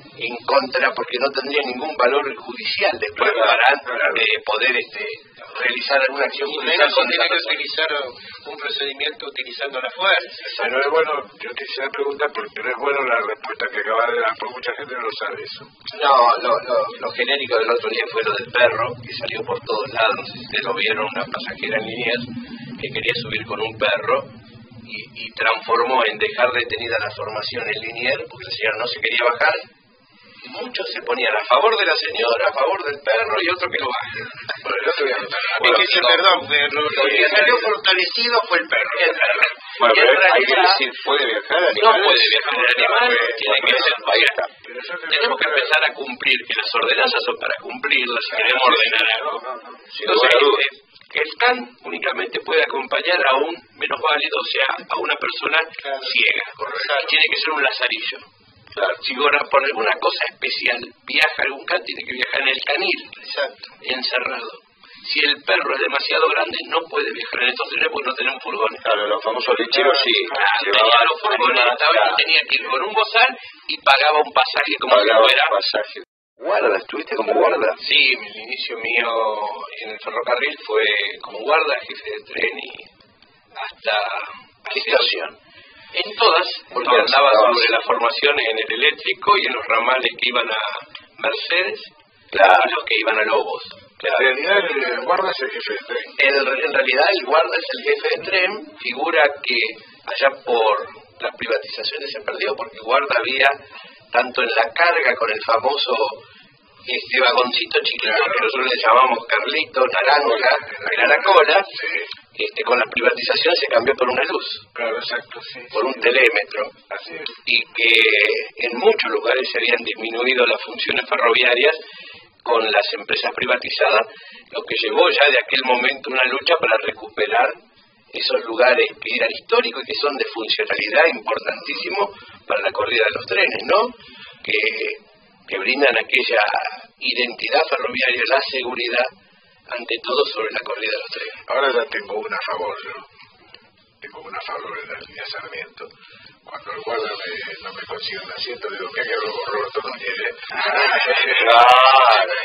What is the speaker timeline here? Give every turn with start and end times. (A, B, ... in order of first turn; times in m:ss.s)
0:00.2-0:07.6 A
0:06.2-0:10.4 B
0:10.5-0:15.7 C
0:15.9-0:24.3 A
0:24.8-0:29.6 A
0:30.4-0:34.6 A
0:34.6-0:35.9 C
0:35.6-0:39.5 B
0:35.6-0:36.2 A
0:36.8-0:37.7 A
0:38.9-0:40.8 A
0:39.8-0:44.5 D
0:41.7-0:44.4 A
0:44.6-0:45.8 C
0:45.1-0:49.4 A
0:49.9-0:50.6 D
0:50.0-1:03.2 A
0:55.8-0:56.1 B
0:56.7-0:57.2 B
1:03.2-1:03.7 B
1:03.8-1:08.8 A
1:08.8-1:12.4 D
1:10.2-1:15.6 A
1:14.9-1:17.8 D
1:17.8-1:22.9 A
1:23.5-1:25.1 A
1:24.7-1:25.4 D
1:25.9-1:34.2 A
1:26.8-1:27.7 D
1:32.3-1:32.7 D
1:34.0-1:36.2 C
1:36.2-1:43.6 A
1:44.1-1:46.2 A
1:46.8-1:51.8 A
1:50.1-1:52.1 C
1:52.3-1:54.7 A
1:54.7-1:56.1 C
1:55.7-1:56.7 A
1:56.9-1:57.3 C
1:57.4-2:01.8 A
2:02.4-2:07.6 A
2:08.1-2:19.1 A
2:19.7-2:21.4 A
2:21.4-2:23.1 C
2:24.0-2:25.9 C
2:26.4-2:31.7 C
2:31.3-2:32.0 D